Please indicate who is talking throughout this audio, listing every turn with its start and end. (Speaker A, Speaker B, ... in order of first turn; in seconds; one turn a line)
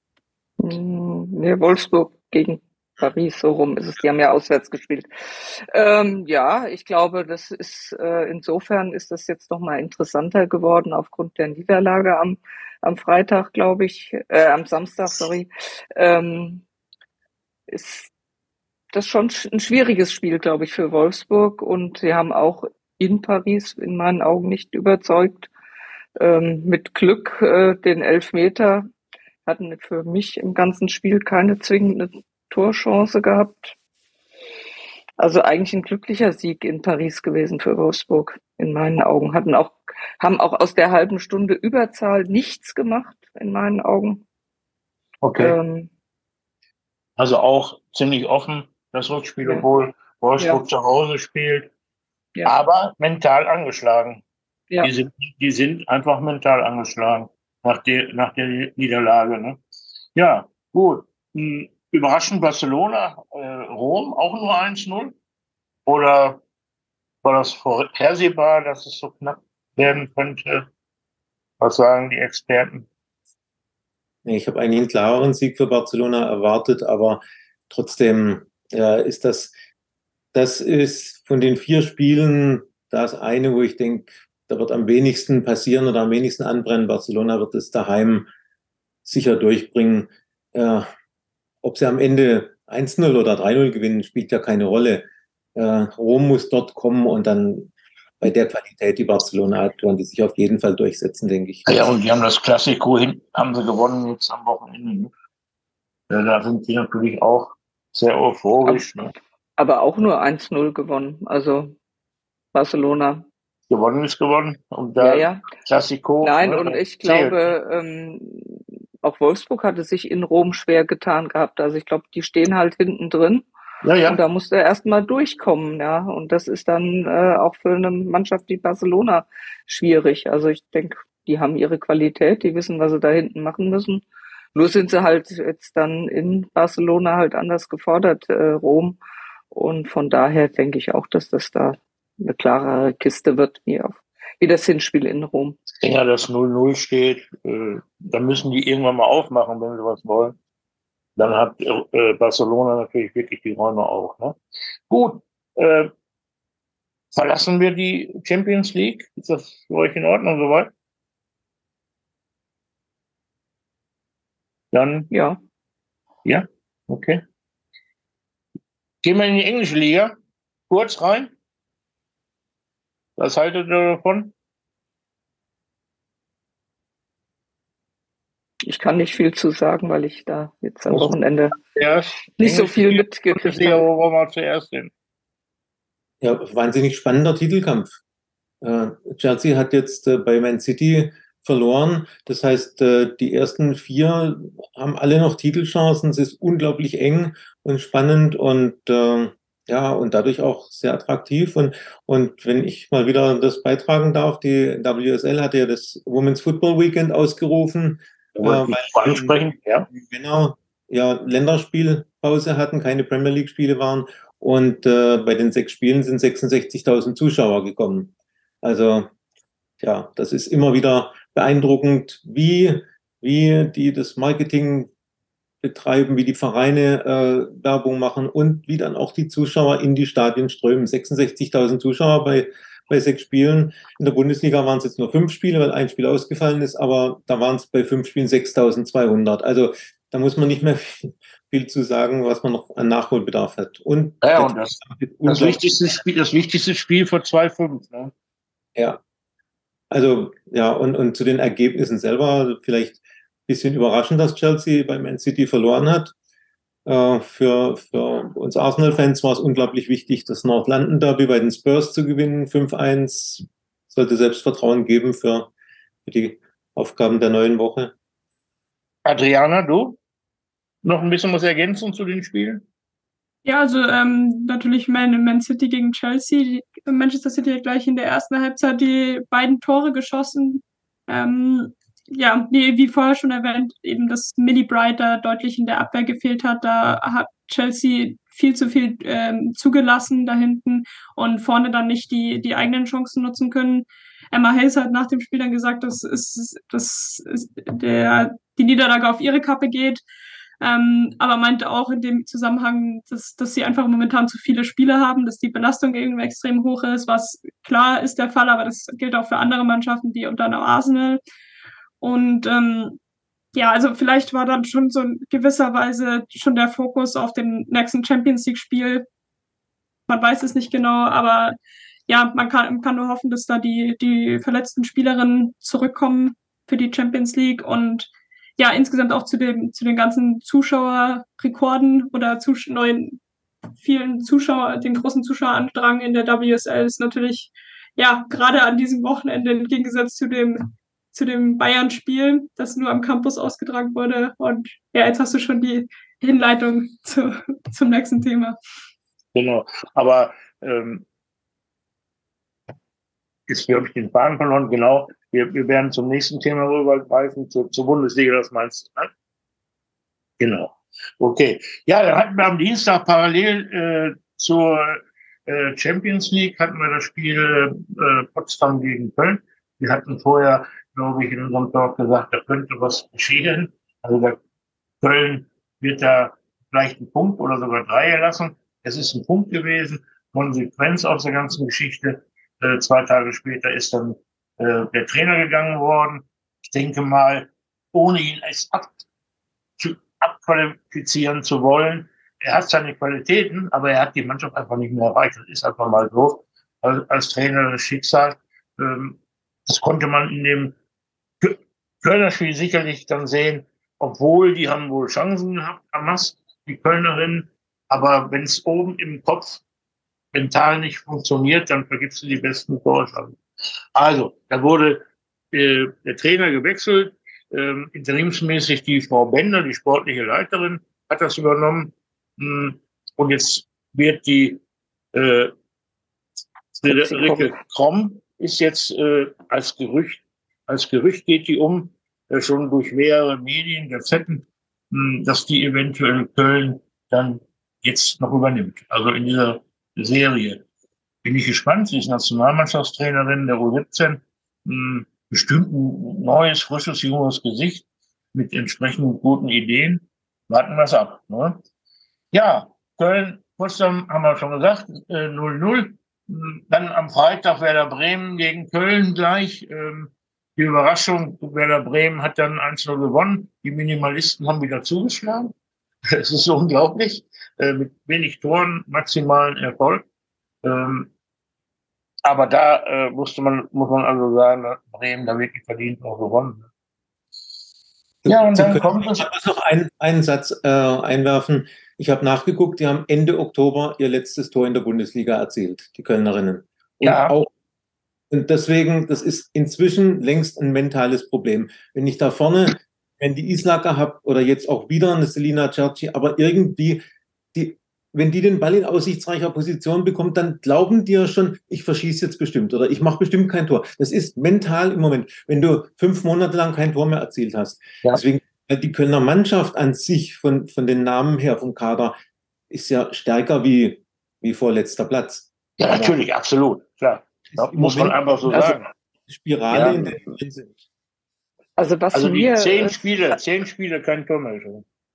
Speaker A: 0.6-16.6
Speaker A: 17.7-18.1
Speaker A: 18.9-25.5
Speaker A: 26.2-28.9
Speaker A: 29.4-33.7
Speaker A: 35.2-44.2
Speaker B: 45.2-45.5
Speaker A: 45.4-45.9
Speaker B: 47.2-51.7
Speaker B: 52.4-54.2
Speaker B: 54.8-59.6
Speaker B: 60.1-65.1
Speaker B: 65.8-66.4
Speaker B: 67.2-70.7
Speaker B: 71.6-72.9
Speaker C: 74.2-79.5
Speaker C: 80.3-88.3
Speaker C: 89.0-90.9
Speaker C: 91.6-101.6
Speaker B: 101.7-105.1
Speaker B: 106.1-109.1
Speaker A: 109.6-111.7
Speaker A: 112.5-113.2
Speaker B: 113.7-117.5
Speaker A: 115.0-115.5
Speaker A: 116.2-123.5
Speaker B: 123.8-124.2
Speaker A: 124.0-139.0
Speaker A: 139.5-145.6
Speaker B: 145.8-150.3
Speaker B: 151.2-154.3
Speaker B: 154.9-155.9
Speaker B: 157.1-160.7
Speaker B: 164.7-165.1
Speaker A: 165.1-165.4
Speaker B: 166.2-167.2
Speaker B: 169.0-170.1
Speaker B: 170.7-171.3
Speaker B: 173.2-174.3
Speaker A: 178.7-181.5
Speaker B: 180.9-184.9
Speaker A: 182.4-183.8
Speaker C: 186.2-188.0
Speaker C: 188.6-209.4
Speaker B: 208.4-209.9
Speaker C: 209.9-218.1
Speaker C: 218.6-219.1
Speaker C: 219.8-224.9
Speaker C: 225.6-245.6
Speaker B: 244.2-248.1
Speaker C: 249.9-256.1
Speaker C: 256.9-265.5
Speaker C: 266.0-267.9
Speaker B: 269.0-270.0
Speaker B: 270.8-272.6
Speaker D: 273.4-300.0
Speaker D: 300.6-311.2
Speaker D: 312.0-313.0
Speaker D: 313.5-319.1
Speaker D: 320.1-321.6
Speaker D: 322.1-333.2
Speaker D: 333.8-348.6
Speaker B: 349.3-351.0
Speaker B: 353.5-359.1
Speaker B: 360.4-374.4
Speaker B: 375.0-389.0
Speaker B: 389.8-400.7
Speaker B: 401.4-409.6
Speaker B: 410.3-413.4
Speaker B: 413.9-424.6
Speaker B: 425.1-425.5
Speaker B: 426.8-440.6
Speaker A: 426.8-427.6
Speaker B: 441.2-451.6
Speaker B: 452.3-465.5
Speaker B: 466.1-470.0
Speaker B: 470.6-471.1
Speaker B: 472.2-476.7
Speaker C: 478.2-487.5
Speaker B: 478.3-479.3
Speaker B: 487.0-487.3
Speaker C: 488.3-497.0
Speaker C: 497.5-512.1
Speaker C: 512.7-516.1
Speaker B: 515.8-518.9
Speaker C: 517.5-520.8
Speaker A: 518.5-518.7
Speaker B: 519.7-520.3
Speaker A: 521.8-523.4
Speaker B: 522.1-524.8